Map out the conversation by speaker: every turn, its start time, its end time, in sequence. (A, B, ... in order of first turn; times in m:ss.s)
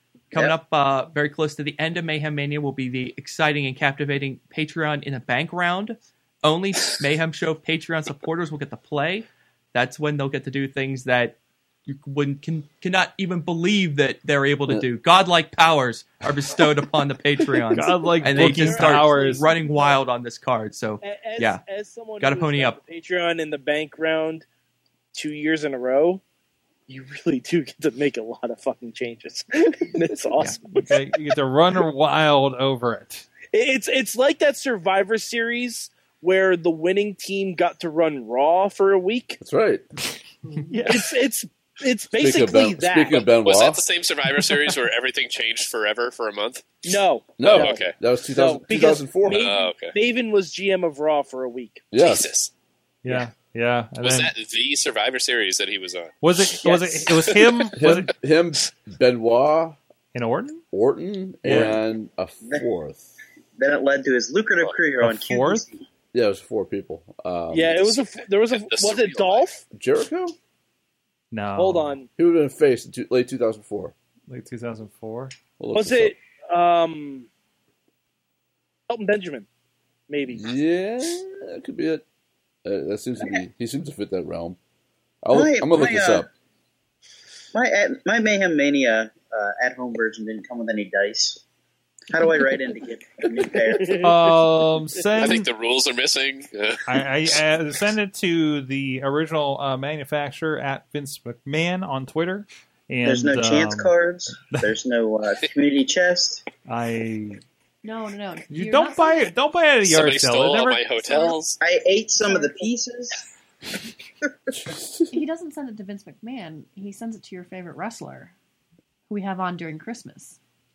0:00.3-0:21.6 A
0:17.7-0:19.5 B
0:18.2-0:20.0 C
0:21.0-0:24.4 C
0:22.2-0:22.8 A
0:25.1-0:26.2 C
0:26.9-0:31.0 C
0:30.7-0:33.2 B
0:33.5-0:39.4 C
0:39.4-0:39.8 D
0:40.7-0:41.1 B
0:40.8-0:43.2 C
0:42.1-0:43.8 D
0:43.1-0:47.9 E
0:46.8-0:51.8 C
0:47.4-0:49.5 D
0:49.2-0:49.9 E
0:51.9-0:52.3 D
0:52.0-0:52.5 E
0:53.0-0:54.3 B
0:54.0-0:56.2 E
0:56.2-0:58.1 B
0:56.6-0:57.0 C
0:57.2-0:57.6 E
0:57.8-0:59.8 D
1:00.1-1:00.6 B
1:00.7-1:03.1 D
1:01.4-1:01.8 B
1:03.6-1:05.8 F
1:05.0-1:05.6 B
1:06.1-1:08.0 D
1:07.5-1:09.6 C
1:08.5-1:09.4 E
1:09.7-1:10.4 D
1:11.3-1:12.0 B
1:11.6-1:12.1 C
1:12.2-1:13.9 D
1:14.3-1:15.3 B
1:15.6-1:16.1 D
1:15.7-1:17.3 C
1:18.9-1:19.5 C
1:20.1-1:20.4 C
1:20.3-1:22.0 D
1:22.6-1:24.6 D
1:25.2-1:26.3 D
1:25.3-1:26.3 F
1:27.5-1:31.4 F
1:32.1-1:34.0 F
1:33.7-1:34.3 C
1:34.0-1:35.5 B
1:35.2-1:37.0 E
1:36.9-1:43.9 B
1:43.0-1:46.4 F
1:46.7-1:47.4 B
1:47.8-1:49.3 G
1:48.5-1:50.8 B
1:49.8-1:51.6 E
1:51.0-1:51.4 G
1:51.6-1:53.2 F
1:52.2-1:52.7 G
1:54.5-1:55.1 D
1:55.1-1:58.3 G
1:59.1-2:00.4 G